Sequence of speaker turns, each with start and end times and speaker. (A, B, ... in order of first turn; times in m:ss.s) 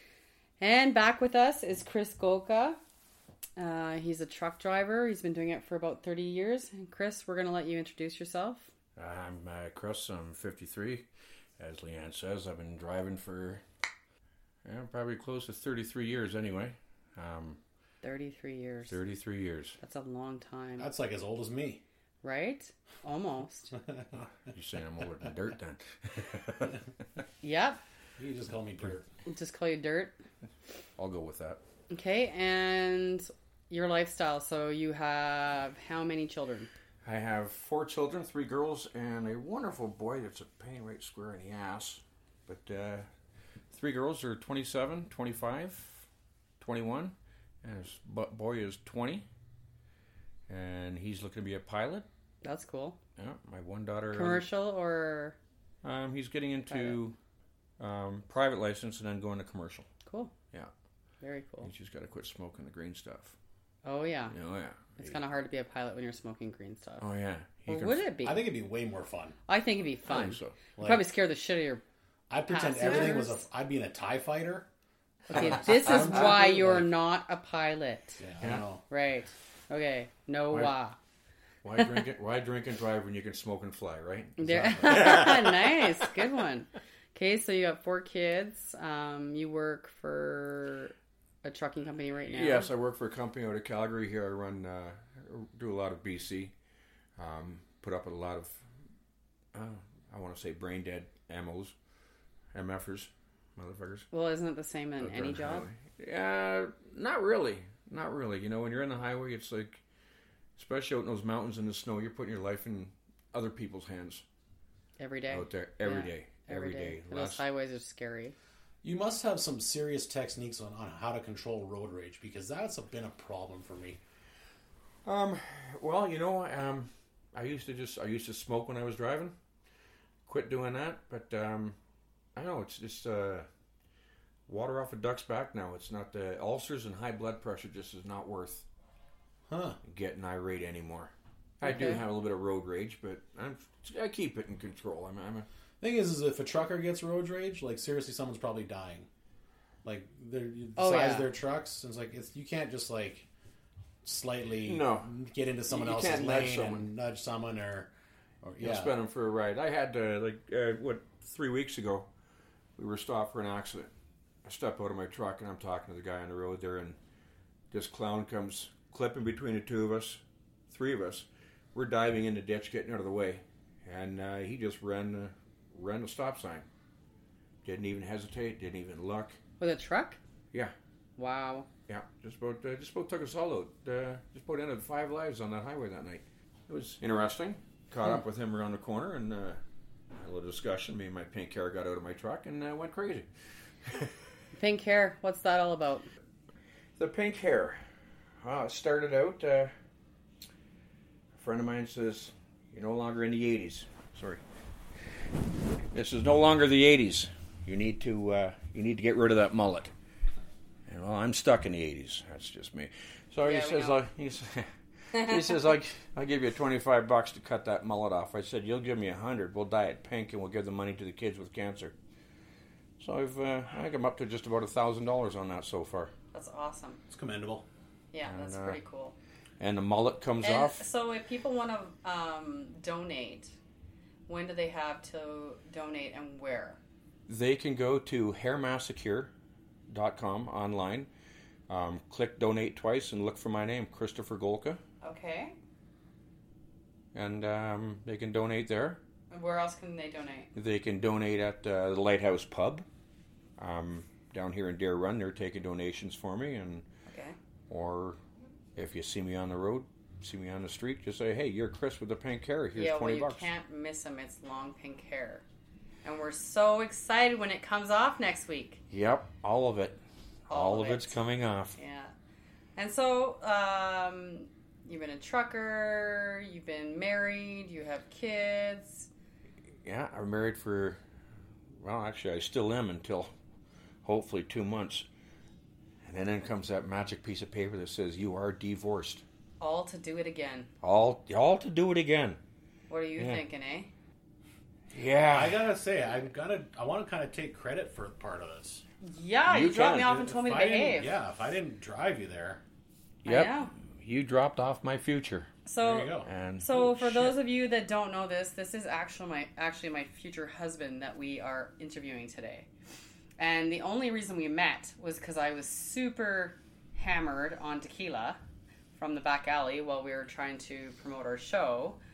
0:00.6-0:02.8 A
0:03.6-0:08.7 A
0:09.0-0:11.1 B
0:11.6-0:13.6 B
0:14.6-0:17.6 B
0:18.0-0:19.0 A
0:18.9-0:19.8 B
0:19.8-0:20.9 A
0:20.8-0:21.8 C
0:22.2-0:23.7 A
0:23.9-0:24.2 C
0:24.5-0:26.8 B
0:27.4-0:27.8 A
0:28.2-0:29.1 C
0:29.2-0:30.2 A
0:31.0-0:31.6 B
0:31.9-0:36.7 A
0:37.0-0:43.1 B
0:43.7-0:46.0 B
0:46.6-0:49.2 B
0:50.5-0:52.0 B
0:52.4-0:53.0 A
0:53.2-0:54.5 B
0:54.1-0:55.4 A
0:55.8-0:57.2 B
0:56.7-0:57.0 A
0:57.8-0:59.9 B
1:00.0-1:00.3 A
1:01.2-1:01.7 A
1:01.6-1:03.3 B
1:03.8-1:04.3 A
1:04.3-1:05.2 B
1:05.0-1:07.0 A
1:07.0-1:08.1 B
1:07.7-1:08.5 A
1:08.2-1:09.4 C
1:09.5-1:11.8 A
1:10.1-1:10.6 B
1:10.8-1:11.0 C
1:12.3-1:14.7 C
1:12.4-1:13.4 A
1:15.3-1:18.2 A
1:15.3-1:16.9 C
1:15.4-1:16.3 B
1:18.2-1:18.8 C
1:18.9-1:21.0 A
1:21.6-1:26.1 B
1:21.8-1:22.0 A
1:24.4-1:32.7 A
1:24.5-1:25.3 C
1:32.3-1:36.5 B
1:37.2-1:38.6 B
1:39.5-1:41.7 B
1:42.5-1:44.1 B
1:44.1-1:45.6 A
1:45.0-1:49.8 B
1:50.6-1:54.2 B
1:55.0-1:58.3 A
1:55.3-1:57.4 B
1:58.8-2:04.0 C
2:05.0-2:09.3 B
2:10.2-2:11.8 B
2:12.3-2:13.5 B
2:14.5-2:18.6 B
2:19.5-2:19.8 C
2:19.8-2:25.5 B
2:21.6-2:22.0 A
2:25.8-2:29.1 C
2:29.8-2:33.3 C
2:30.8-2:31.3 A
2:34.0-2:37.9 C
2:34.6-2:35.1 B
2:35.7-2:36.9 B
2:38.4-2:38.9 C
2:38.6-2:42.1 B
2:42.8-2:43.9 B
2:44.4-2:47.0 B
2:47.7-2:56.7 B
2:57.6-2:59.4 B
2:59.6-3:00.2 A
3:01.2-3:01.7 A
3:01.9-3:09.6 B
3:10.1-3:13.3 B
3:13.8-3:14.1 B
3:14.5-3:16.1 A
3:17.0-3:17.8 B
3:18.4-3:19.7 B
3:21.3-3:24.4 B
3:25.9-3:29.9 B
3:30.9-3:41.9 B
3:33.4-3:34.0 A
3:43.0-3:46.1 B
3:46.3-3:47.0 A
3:47.1-3:47.6 C
3:48.1-3:49.1 A
3:48.2-3:48.8 B
3:49.6-3:50.8 B
3:50.4-3:53.5 A
3:54.3-3:56.8 A
3:57.3-3:59.3 B
3:59.9-4:01.1 B
4:01.7-4:04.8 B
4:05.0-4:05.5 A
4:07.1-4:09.0 B
4:09.3-4:10.5 A
4:10.5-4:12.8 B
4:13.6-4:16.8 B
4:17.0-4:17.4 A
4:17.7-4:18.2 B
4:18.7-4:23.5 B
4:22.7-4:25.4 A
4:26.0-4:28.8 A
4:28.9-4:31.8 B
4:30.5-4:31.2 A
4:31.8-4:32.1 A
4:32.8-4:39.1 A
4:39.8-4:41.0 B
4:41.8-4:43.3 B
4:44.0-4:45.0 B
4:46.0-4:49.2 B
4:49.6-4:50.7 A
4:50.8-4:52.4 B
4:52.9-4:53.9 A
4:53.2-4:53.4 B
4:54.9-4:55.7 B
4:55.3-4:58.8 C
4:59.0-5:01.1 A
4:59.5-5:00.2 B
5:00.0-5:02.6 C
5:03.2-5:05.5 B
5:03.2-5:03.7 A
5:05.6-5:12.7 A
5:05.8-5:06.3 C
5:06.2-5:07.3 B
5:13.4-5:18.4 A
5:18.9-5:22.0 A